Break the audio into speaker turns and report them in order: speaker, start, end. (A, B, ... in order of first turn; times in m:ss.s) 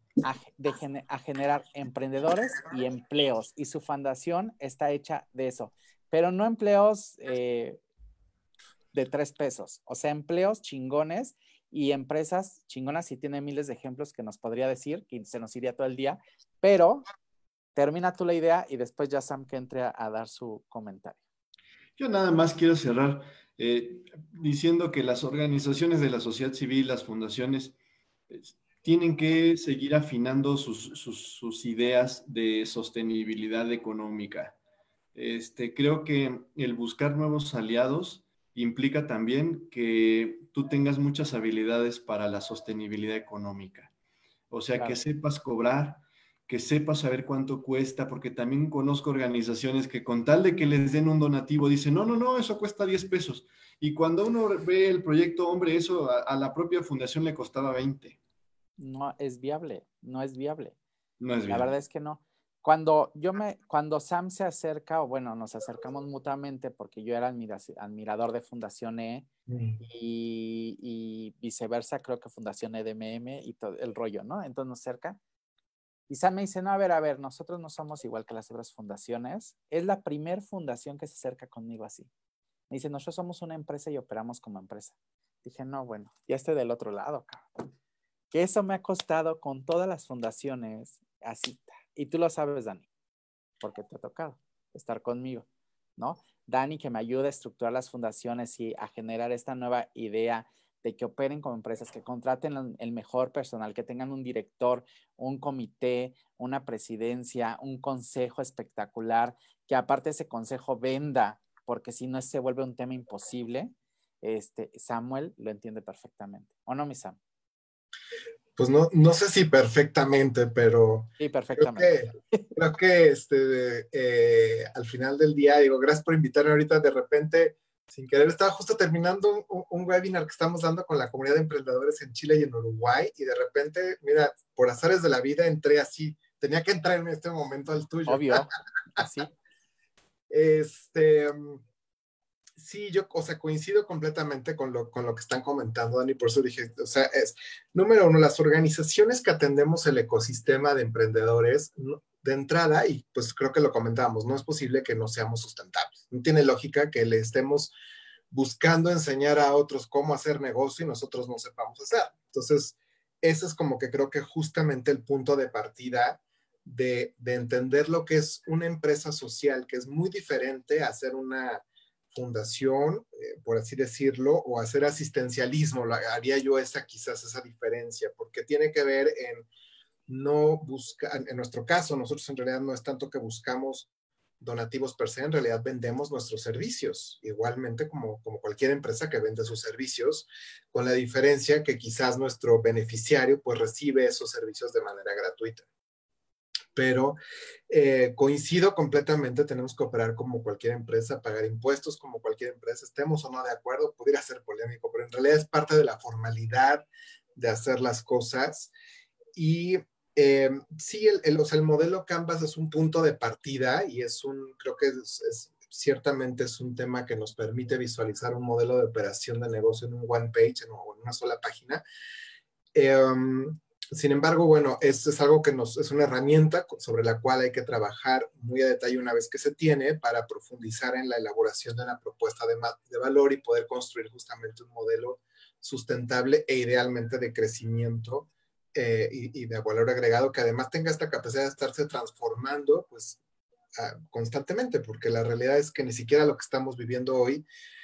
0:00.2-0:07.8 A
0:08.9-0:17.0 A
0:17.8-0:21.2 A
0:22.0-0:27.8 B
0:28.3-0:34.6 B
0:35.2-0:43.9 B
0:44.5-0:58.2 B
0:44.8-0:45.0 A
0:58.8-1:00.8 A
1:01.2-1:01.7 B
1:01.5-1:09.3 A
1:09.5-1:09.8 C
1:09.8-1:15.2 A
1:16.1-1:22.1 A
1:22.7-1:27.5 A
1:28.3-1:32.9 A
1:33.6-1:35.5 A
1:36.0-1:57.2 A
1:58.6-2:18.5 C
2:01.2-2:01.9 A
2:18.1-2:19.3 A
2:20.3-2:21.6 C
2:22.6-2:37.7 C
2:38.3-2:59.5 C
3:00.1-3:03.9 C
3:04.4-3:15.6 C
3:16.8-3:17.2 C
3:17.7-3:28.7 C
3:29.4-3:41.8 C
3:42.7-4:03.2 C
4:03.8-4:07.5 C